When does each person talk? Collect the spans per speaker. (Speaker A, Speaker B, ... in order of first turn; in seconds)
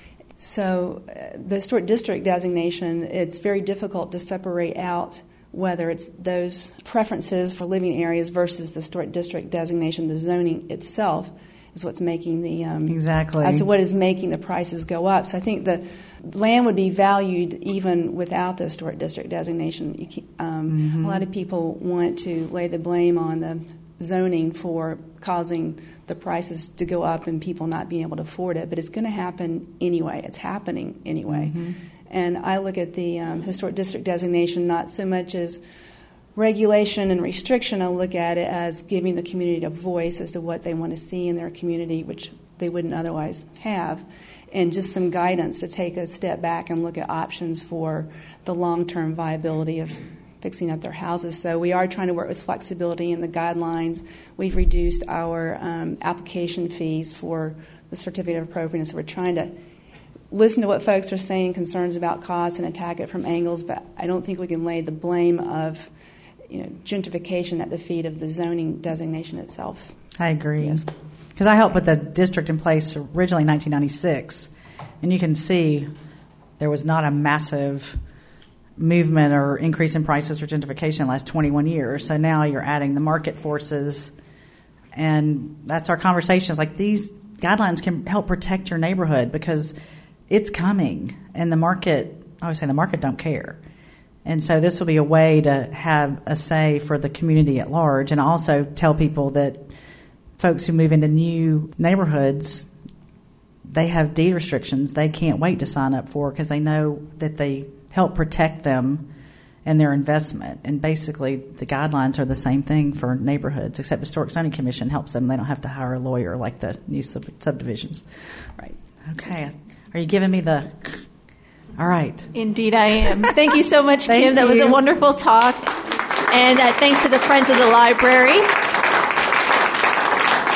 Speaker A: 0.4-35.6, 36.3-59.5, 60.3-65.9, 66.5-70.0, 70.6-70.8
Speaker B: 12.9-13.7, 20.7-21.2, 31.3-31.8, 70.2-70.8, 71.4-74.5, 75.0-75.9, 76.6-78.0, 78.8-84.1, 84.9-89.7, 90.3-93.6, 94.2-99.7, 100.4-102.7, 103.7-109.0, 109.6-118.0, 119.1-121.0, 121.8-122.3, 124.1-124.8
Speaker C: 122.3-125.7, 126.3-128.6